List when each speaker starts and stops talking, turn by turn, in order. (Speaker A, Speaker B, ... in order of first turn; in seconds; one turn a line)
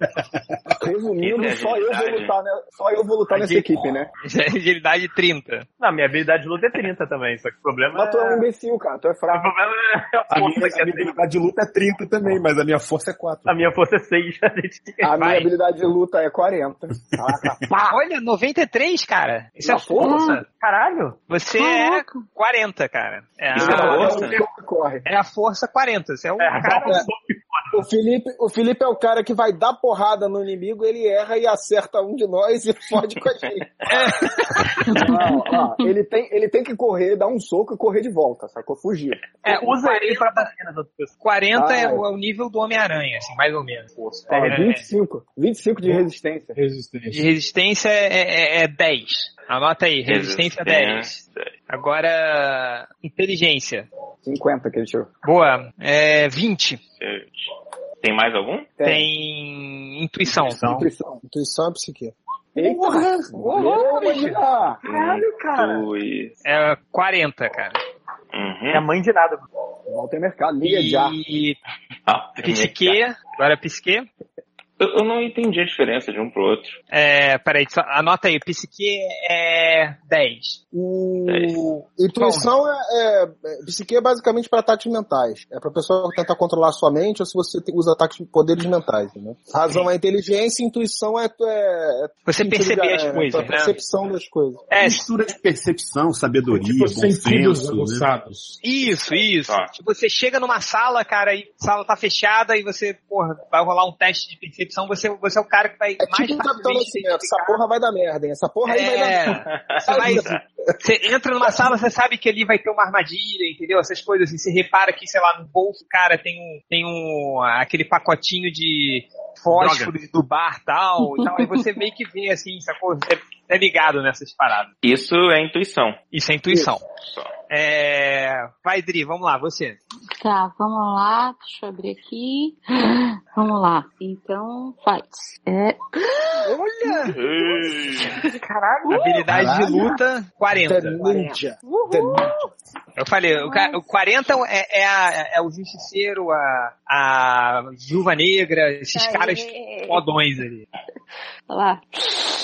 Speaker A: 0.8-4.1
Speaker B: 1.2-2.3
Speaker C: 3.3-5.7
Speaker D: 5.8-8.5
Speaker A: 7.9-9.5
Speaker D: 9.3-11.1
Speaker E: 10.3-13.7
Speaker D: 13.4-15.2
Speaker A: 15.0-17.7
Speaker C: 15.2-15.5
Speaker C: 17.9-20.4
Speaker A: 19.6-20.2
Speaker F: 20.0-20.4
Speaker D: 20.5-21.2
Speaker C: 21.3-24.4
Speaker F: 21.6-22.2
Speaker A: 23.5-25.0
Speaker B: 23.6-24.4
Speaker C: 25.0-27.0
Speaker D: 26.4-27.7
Speaker G: 27.7-33.7
Speaker C: 33.9-34.9
Speaker F: 34.8-35.9
Speaker A: 34.9-39.2
Speaker D: 39.4-41.1
Speaker C: 39.4-40.5
Speaker C: 41.2-44.8
Speaker A: 41.5-42.0
Speaker A: 44.3-46.6
Speaker H: 45.8-47.3
Speaker C: 47.1-53.9
Speaker B: 50.0-51.5
Speaker A: 54.2-55.1
Speaker C: 55.2-56.8
Speaker B: 57.0-57.4
Speaker B: 58.0-58.8
Speaker A: 58.8-59.1
Speaker C: 58.8-60.6
Speaker A: 60.4-61.2
Speaker D: 60.6-60.9
Speaker G: 61.2-62.1
Speaker A: 62.5-64.8
Speaker C: 63.4-64.4
Speaker D: 63.5-63.9
Speaker D: 64.8-65.8
Speaker B: 64.9-66.3
Speaker C: 66.4-67.8
Speaker B: 68.3-68.8
Speaker D: 68.7-69.4
Speaker A: 69.9-71.1
Speaker C: 70.6-71.6
Speaker B: 72.1-73.0
Speaker C: 72.4-74.1
Speaker B: 74.8-76.8
Speaker C: 76.9-80.6
Speaker G: 80.7-94.6
Speaker B: 81.2-81.7
Speaker C: 82.2-82.5
Speaker C: 92.2-93.8
Speaker C: 94.7-95.0
Speaker E: 94.8-98.1
Speaker H: 96.5-98.6
Speaker C: 98.6-107.6
Speaker B: 99.4-99.7
Speaker G: 106.1-110.4
Speaker C: 108.7-110.3
Speaker B: 109.6-110.4
Speaker C: 110.8-124.7
Speaker F: 121.0-121.6
Speaker B: 124.8-126.0
Speaker C: 126.1-126.8
Speaker C: 127.5-129.8
Speaker F: 130.2-136.6
Speaker G: 136.5-137.1
Speaker B: 137.1-138.2
Speaker F: 138.2-139.8
Speaker C: 138.9-141.3
Speaker G: 139.3-139.7
Speaker G: 140.5-142.3
Speaker F: 141.6-142.5
Speaker C: 143.0-150.6
Speaker F: 143.3-143.8
Speaker F: 148.9-150.0
Speaker F: 151.5-152.3